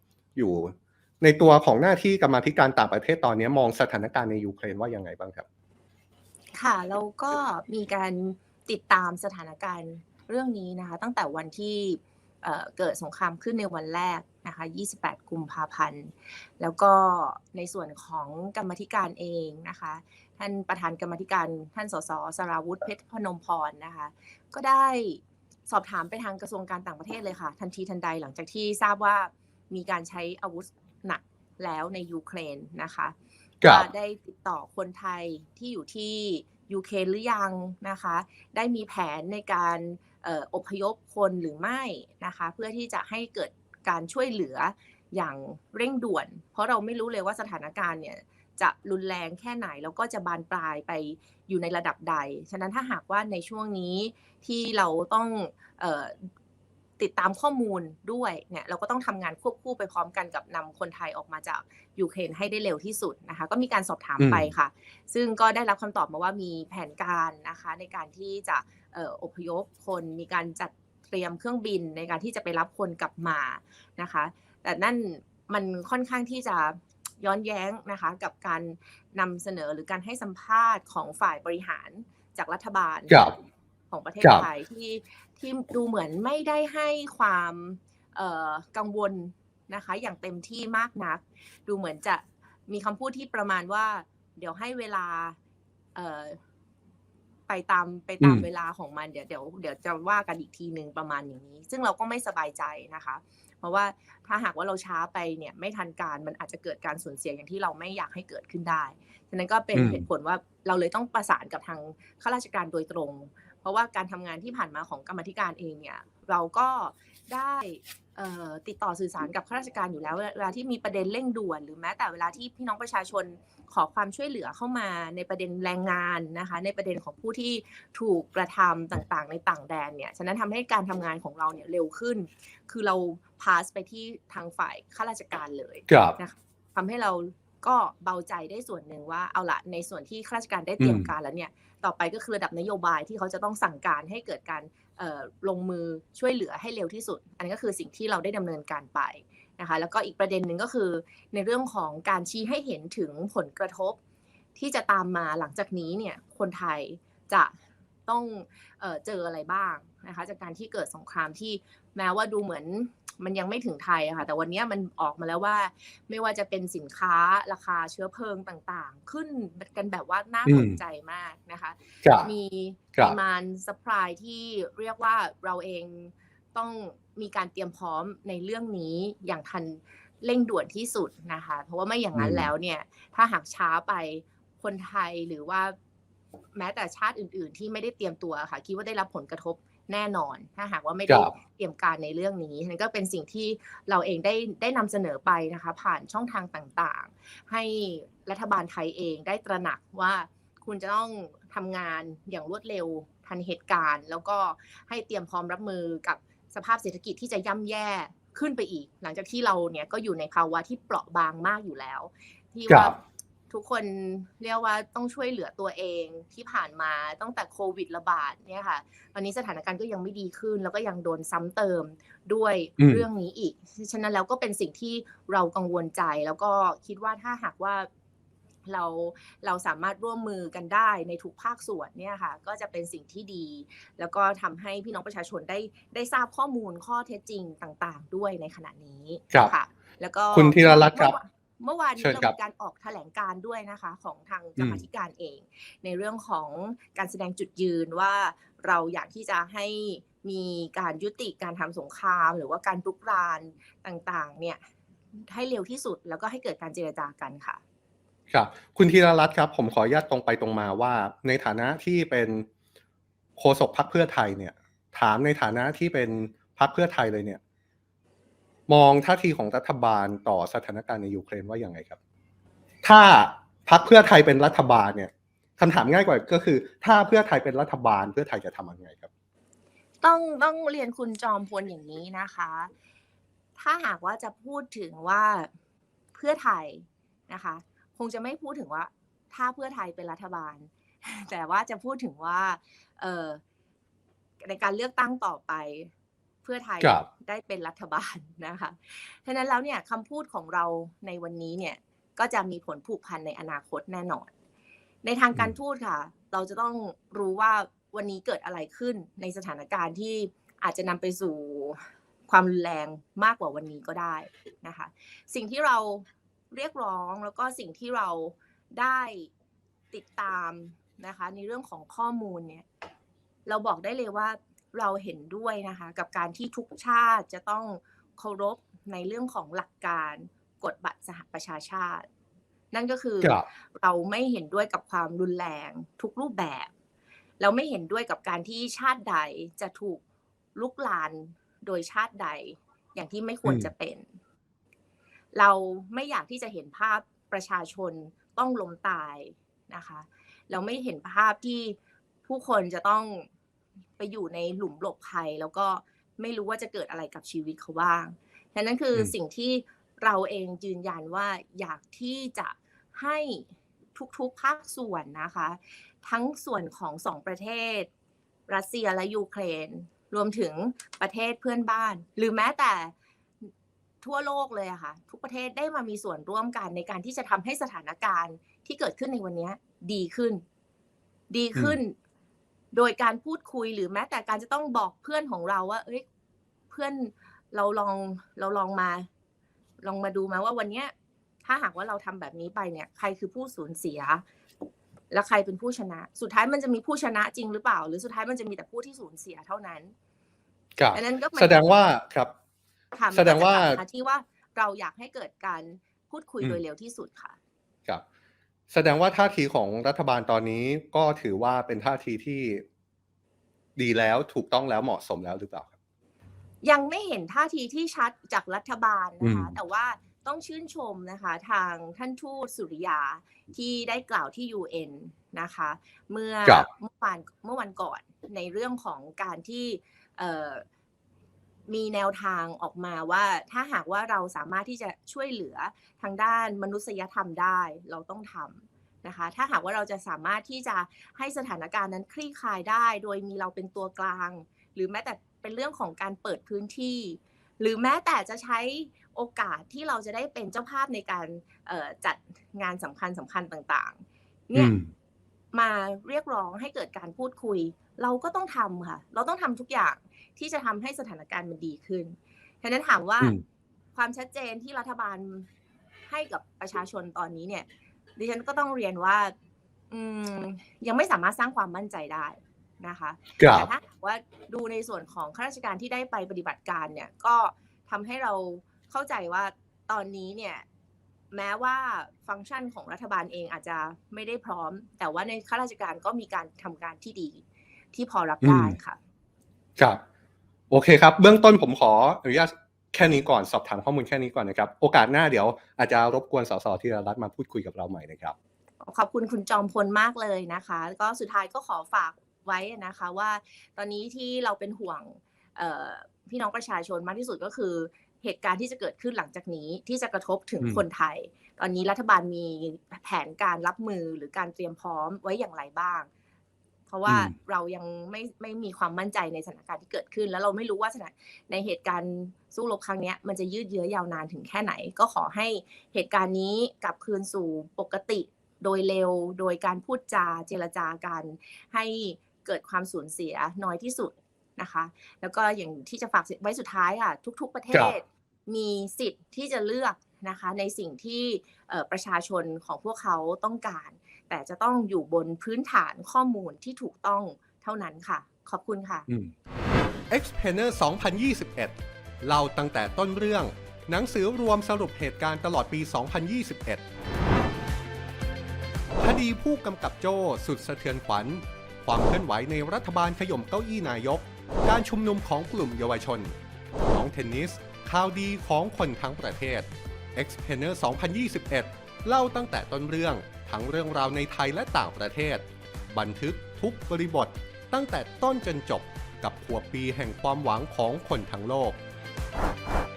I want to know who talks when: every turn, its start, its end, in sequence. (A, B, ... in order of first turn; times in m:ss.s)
0:00.4-0:05.4 A
0:06.5-0:56.3 B
0:33.6-0:33.9 A
0:57.0-1:23.4 B
1:04.2-1:04.5 A
1:23.1-1:23.4 A
1:23.9-1:35.4 B
1:24.2-1:24.5 A
1:36.0-1:36.4 B
1:37.5-2:34.0 B
1:38.2-1:38.5 A
1:49.7-1:50.0 A
2:15.9-2:16.2 A
2:20.8-2:21.1 A
2:34.6-2:37.6 B
2:38.1-3:05.8 B
2:50.5-2:50.8 A
2:52.0-2:52.3 A
3:02.2-3:02.5 A
3:06.6-3:47.9 B
3:11.1-3:11.3 A
3:32.7-3:33.0 A
3:42.8-3:43.0 A
3:48.7-4:14.6 B
4:00.3-4:01.2 A
4:02.0-4:02.4 A
4:04.6-4:04.8 A
4:15.2-4:17.6 B
4:18.3-4:22.5 A
4:23.4-4:27.4 A
4:28.7-4:32.0 A
4:32.8-4:39.1 A
4:40.0-4:42.7 B
4:43.6-4:45.5 B
4:46.1-4:53.4 B
4:54.4-4:55.9 B
4:56.4-5:04.3 B
4:56.8-4:57.1 A
5:05.0-5:19.3 B
5:19.9-5:22.7 B
5:23.5-5:32.1 B
5:32.7-5:36.7 B
5:33.2-5:33.5 A
5:37.4-5:40.0 B
5:40.6-5:44.1 B
5:43.4-5:43.7 A
5:45.3-5:51.8 B
5:52.3-5:53.3 B
5:54.0-6:07.9 B
6:08.5-6:13.5 B
6:14.0-6:20.4 B
6:21.3-6:22.0 B
6:22.7-6:26.0 B
6:26.7-6:29.1 B
6:29.8-6:30.9 B
6:31.4-6:34.2 B
6:35.1-6:39.9 B
6:40.8-6:42.3 A
6:40.9-6:41.7 B
6:42.9-6:47.4 B
6:43.1-6:43.8 A
6:48.7-6:52.6 A
6:53.8-6:55.7 A
6:56.6-7:10.6 B
6:59.2-6:59.6 A
7:11.7-7:34.8 B
7:34.6-7:34.9 A
7:35.5-7:43.4 B
7:44.0-7:45.5 B
7:46.1-7:49.3 B
7:49.9-8:00.6 B
7:53.4-7:53.7 A
8:01.3-8:09.0 B
8:08.4-8:08.8 A
8:10.7-8:18.4 A
8:18.8-8:36.1 B
8:36.9-9:09.1 B
8:37.1-8:37.4 A
9:09.1-9:09.3 A
9:10.1-9:16.8 A
9:19.0-9:26.4 A
9:26.9-9:41.8 A